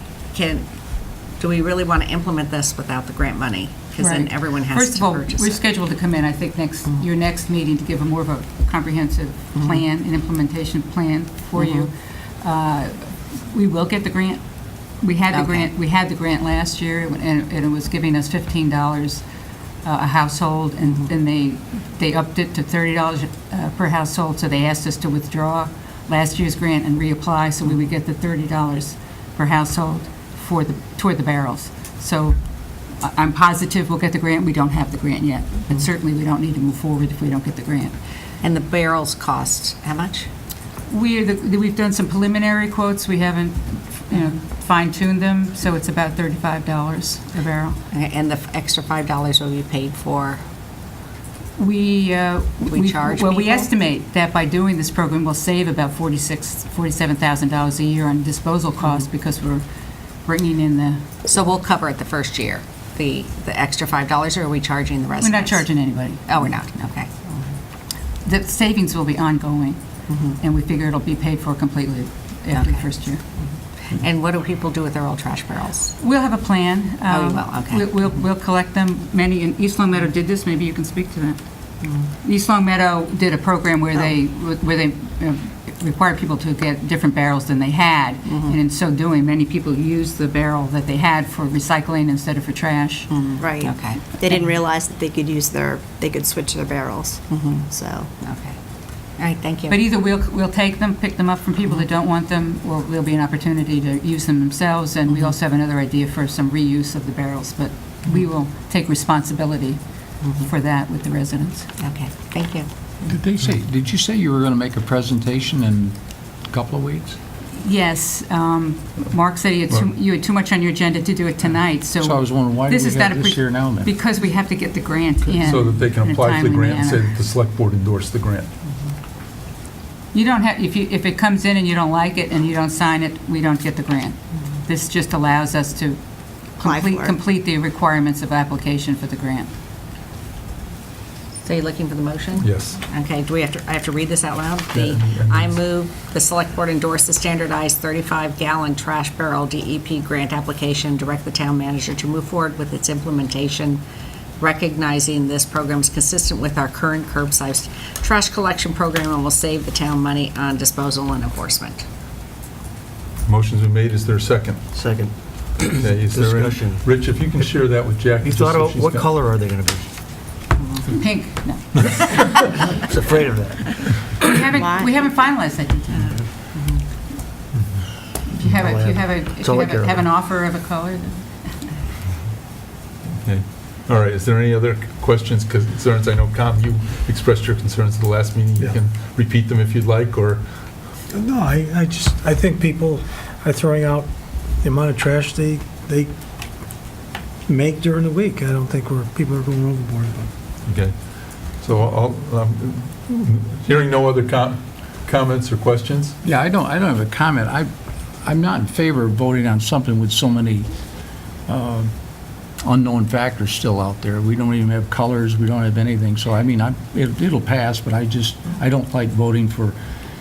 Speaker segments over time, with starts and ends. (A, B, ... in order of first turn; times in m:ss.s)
0:00.3-0:00.7 A
0:01.4-0:05.6 A
0:04.0-0:14.4 B
0:11.6-0:11.9 A
0:15.0-0:19.2 B
0:15.3-0:15.7 A
0:19.8-0:32.4 B
0:33.0-0:37.9 B
0:38.4-0:40.3 A
0:40.9-0:47.8 B
0:47.9-0:50.4 A
0:51.6-0:59.6 B
0:52.7-0:53.7 A
1:00.2-1:01.0 B
1:01.2-1:07.5 A
1:05.2-1:06.4 B
1:08.2-1:09.8 B
1:10.1-1:10.4 A
1:10.4-1:13.2 B
1:12.5-1:16.0 A
1:16.0-1:21.4 B
1:17.1-1:18.1 A
1:21.8-1:22.1 A
1:22.2-1:33.1 B
1:28.3-1:28.6 A
1:33.1-1:34.0 A
1:33.4-1:38.1 C
1:37.3-1:37.7 A
1:38.2-1:38.6 A
1:39.2-1:39.8 A
1:39.7-1:49.8 B
1:45.1-1:45.4 A
1:50.2-1:50.5 A
1:50.4-1:51.7 B
1:51.8-1:52.7 A
1:53.1-1:56.0 D
1:56.5-1:57.2 D
1:57.6-2:07.1 B
2:02.0-2:03.9 D
2:05.4-2:08.5 E
2:10.1-2:16.0 B
2:16.6-2:19.5 B
2:16.6-2:17.2 C
2:21.4-2:33.8 A
2:22.4-2:22.8 E
2:24.7-2:25.6 E
2:34.4-2:41.9 A
2:43.2-2:44.6 E
2:44.8-2:46.8 F
2:45.6-2:49.3 E
2:48.3-2:49.8 F
2:50.9-2:52.5 B
2:52.9-2:53.6 F
2:54.2-2:56.2 B
2:54.5-2:55.0 C
2:56.0-2:56.8 A
2:58.3-3:01.7 B
2:58.6-3:00.0 F
3:03.2-3:10.4 E
3:11.1-3:16.1 G
3:17.5-3:20.3 G
3:20.7-3:26.2 E
3:26.2-3:27.7 D
3:28.2-3:30.7 D
3:31.5-3:31.9 D
3:32.6-3:39.8 D